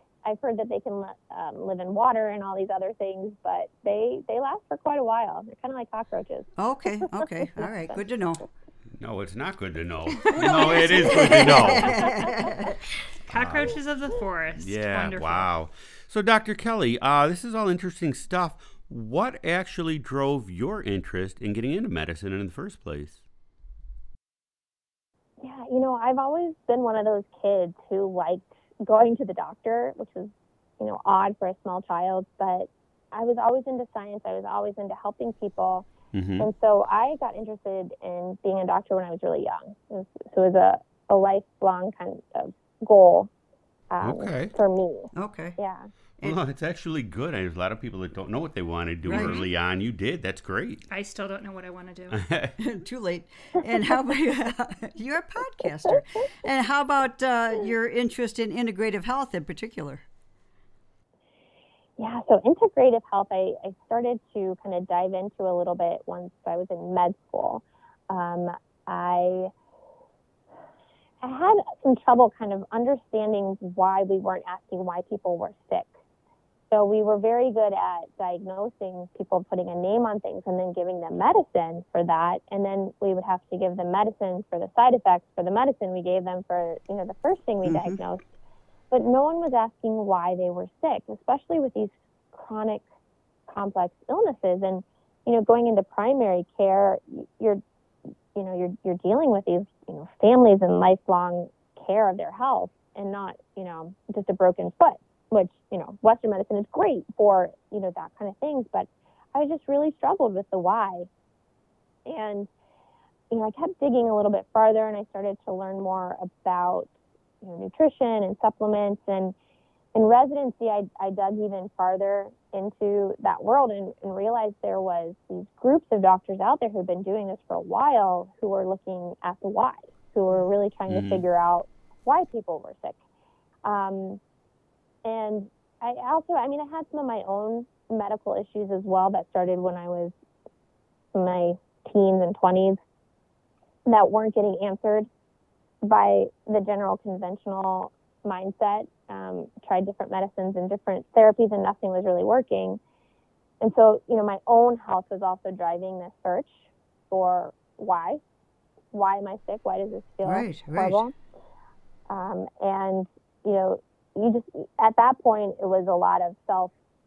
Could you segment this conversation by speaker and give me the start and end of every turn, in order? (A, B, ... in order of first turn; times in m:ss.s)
0:00.2-0:06.5 A
0:06.6-0:08.5 B
0:07.2-0:08.0 A
0:09.0-0:12.2 C
0:10.3-0:12.2 D
0:10.4-0:12.8 B
0:13.3-0:15.5 D
0:13.3-0:13.8 C
0:14.6-0:23.2 C
0:25.4-0:35.9 A
0:36.1-0:36.5 C
0:36.4-0:43.3 A
0:43.9-0:45.9 A
0:44.0-0:44.6 C
0:45.1-0:45.6 B
0:46.2-0:50.8 C
0:49.0-0:49.4 B
0:49.1-0:49.5 D
0:50.9-0:52.2 D
0:52.1-0:52.6 C
0:52.6-1:00.0 B
1:02.0-1:09.5 A
1:11.2-1:15.9 A
1:16.7-1:28.3 A
1:27.6-1:28.0 B
1:28.9-1:32.8 A
1:33.5-1:37.6 A
1:38.4-1:51.1 A
1:52.1-1:52.5 A
1:53.3-1:56.9 A
1:57.4-1:59.4 A
2:00.0-2:13.0 A
2:10.9-2:11.2 C
2:13.6-2:14.2 A
2:15.0-2:20.1 A
2:21.1-2:22.8 A
2:23.9-2:25.1 A
2:25.8-2:32.8 A
2:33.6-2:38.2 A
2:38.9-2:41.1 A
2:40.2-2:41.0 B
2:42.1-2:46.7 A